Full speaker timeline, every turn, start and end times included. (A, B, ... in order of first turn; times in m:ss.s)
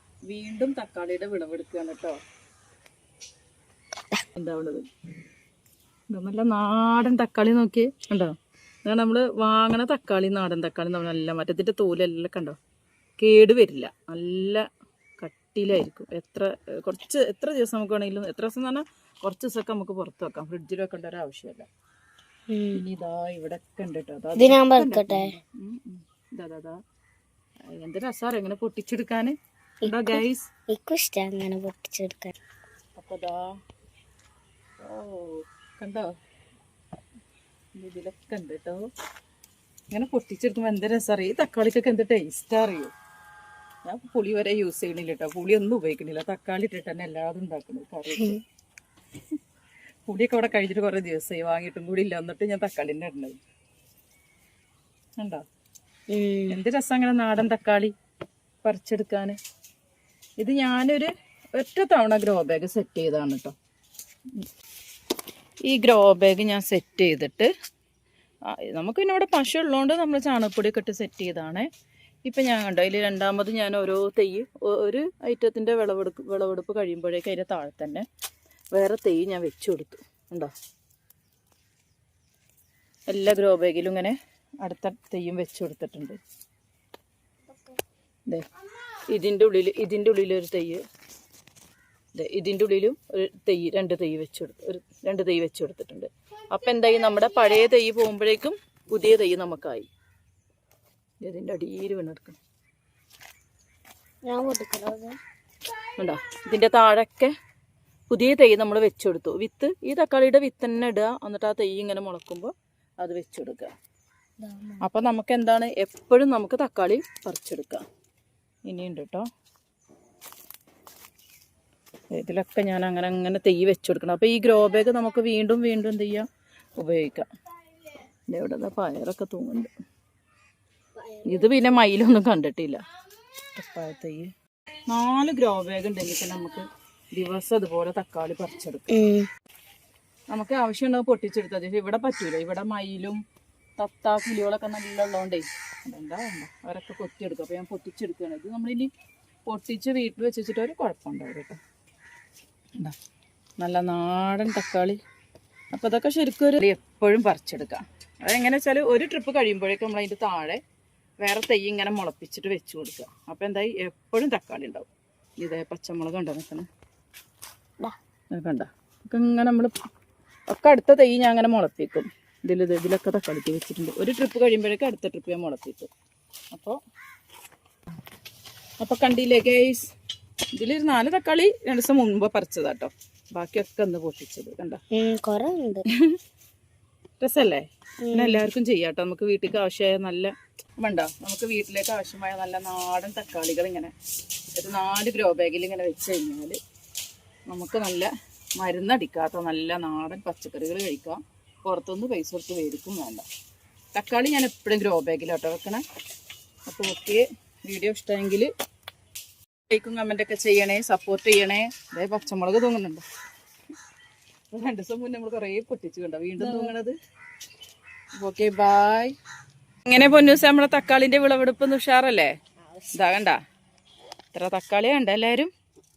0:00.2-0:02.2 A
0:04.4-0:04.8 A
0:06.1-0:08.3 A
0:08.8-0:12.6 A
0:13.2-0:14.6 A
0:15.2-0:21.7 A
0:22.5-0:22.8 B
0:22.7-0:26.8 A
0:24.4-0:25.3 B
0:27.7-0:29.3 A
0:29.8-0:30.2 B
0:29.8-0:30.5 A
0:30.7-0:32.3 B
0:33.0-0:33.5 A
0:34.8-0:36.1 A
0:37.7-0:38.8 A
0:39.9-0:42.9 A
0:43.8-0:48.4 A
0:50.1-0:53.4 A
0:56.1-0:56.6 B
0:56.5-0:57.9 A
0:58.6-0:59.4 A
1:00.4-1:03.5 A
1:05.7-1:07.5 A
1:08.5-1:11.7 A
1:12.2-1:18.0 A
1:18.7-1:20.5 A
1:23.1-1:26.2 A
1:27.5-1:27.8 B
1:29.1-1:30.8 A
1:32.1-1:39.9 A
1:41.2-1:42.4 A
1:44.3-1:45.2 B
1:46.0-1:47.3 A
1:48.1-1:53.7 A
1:54.4-1:54.8 B
1:54.8-1:57.8 A
1:58.7-1:59.2 A
2:02.1-2:06.3 A
2:06.8-2:07.2 A
2:08.3-2:09.7 A
2:11.2-2:12.8 A
2:13.5-2:14.3 A
2:14.9-2:16.6 A
2:17.1-2:19.0 A
2:18.9-2:19.2 B
2:20.3-2:23.2 A
2:23.8-2:28.9 A
2:29.5-2:31.6 A
2:33.6-2:35.0 A
2:35.7-2:40.6 A
2:41.2-2:44.9 A
2:45.4-2:46.7 A
2:48.3-2:49.7 A
2:50.5-2:55.9 A
2:58.8-2:59.9 A
3:00.5-3:04.8 A
3:04.9-3:05.8 B
3:07.2-3:13.9 A
3:08.0-3:08.4 B
3:14.6-3:16.6 A
3:17.5-3:23.2 A
3:23.9-3:25.8 A
3:26.7-3:28.5 A
3:29.7-3:33.0 A
3:34.5-3:36.9 A
3:36.4-3:36.7 B
3:38.2-3:39.1 A
3:39.8-3:42.3 A
3:42.7-3:43.0 B
3:42.9-3:43.4 A
3:44.3-3:45.5 A